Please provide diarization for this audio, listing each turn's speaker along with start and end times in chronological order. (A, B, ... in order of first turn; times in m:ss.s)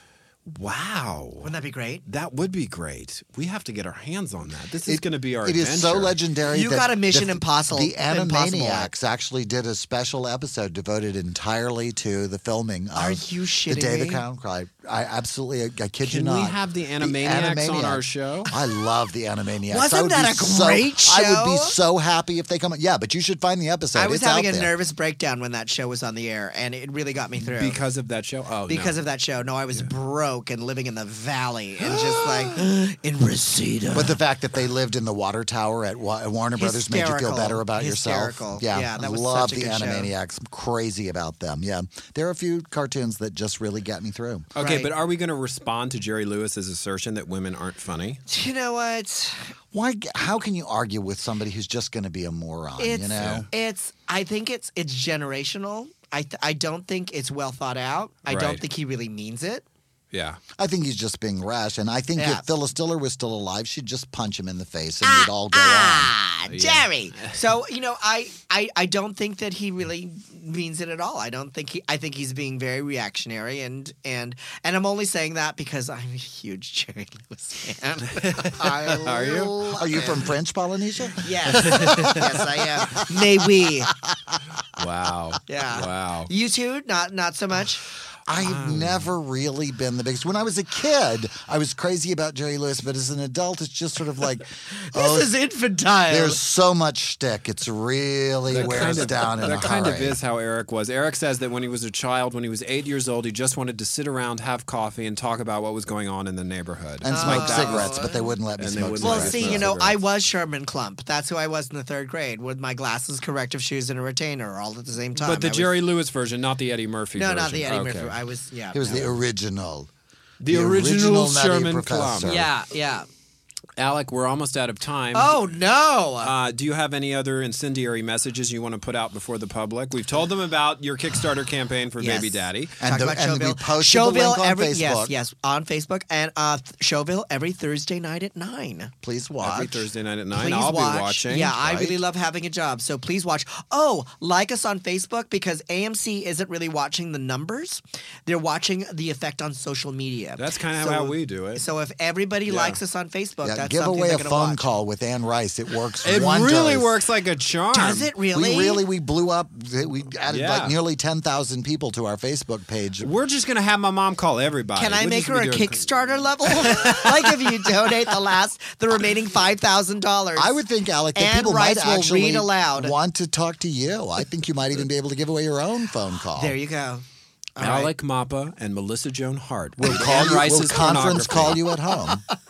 0:00.5-0:01.5 A
0:01.4-0:02.0 B
0:02.0-0:06.2 A
0:04.8-0:24.7 C
0:06.5-0:08.9 B
0:12.9-0:14.2 B
0:16.0-0:18.5 A
0:19.7-0:21.7 B
0:23.9-0:27.8 B
0:27.4-0:29.0 A
0:28.7-0:34.2 B
0:33.9-0:44.5 C
0:36.6-0:40.1 B
0:44.5-0:48.2 A
0:44.6-0:44.9 B
0:48.3-0:49.5 B
0:49.7-0:53.4 C
0:52.8-0:59.6 B
0:53.2-0:53.5 A
0:58.3-0:58.6 A
1:00.1-1:00.4 A
1:00.6-1:06.1 C
1:02.2-1:02.5 B
1:05.0-1:20.3 B
1:06.5-1:07.4 A
1:18.1-1:19.5 A
1:18.6-1:23.7 C
1:21.2-1:23.9 B
1:21.5-1:22.2 A
1:24.8-1:26.3 A
1:25.5-1:27.8 B
1:28.3-1:35.3 C
1:28.4-1:29.1 A
1:34.8-1:36.4 B
1:36.1-1:40.2 C
1:38.5-1:48.0 A
1:38.6-1:39.0 B
1:47.0-1:49.7 C
1:47.1-1:48.3 B
1:48.6-1:50.0 A
1:49.0-1:55.7 B
1:55.2-1:58.2 A
1:57.1-1:59.1 B
1:58.7-1:59.9 C
2:00.4-2:02.6 A
2:00.4-2:02.5 C
2:02.3-2:03.1 B
2:03.8-2:05.4 A
2:05.1-2:06.3 B
2:06.2-2:12.8 A
2:12.0-2:18.9 B
2:12.8-2:15.1 C
2:19.0-2:19.9 C
2:19.4-2:22.0 A
2:20.3-2:34.6 B
2:30.4-2:31.6 A
2:32.4-2:32.8 A
2:33.4-2:36.9 C
2:36.0-2:38.1 A
2:37.7-2:38.8 B
2:38.3-2:43.1 C
2:40.3-2:40.8 A
2:43.0-2:45.8 A
2:44.8-2:50.5 B
2:46.5-2:48.1 A
2:50.3-2:56.6 C
2:51.1-2:52.9 B
2:56.3-2:57.0 B
2:57.6-2:57.9 B
2:57.6-3:01.7 A
2:59.8-3:02.2 C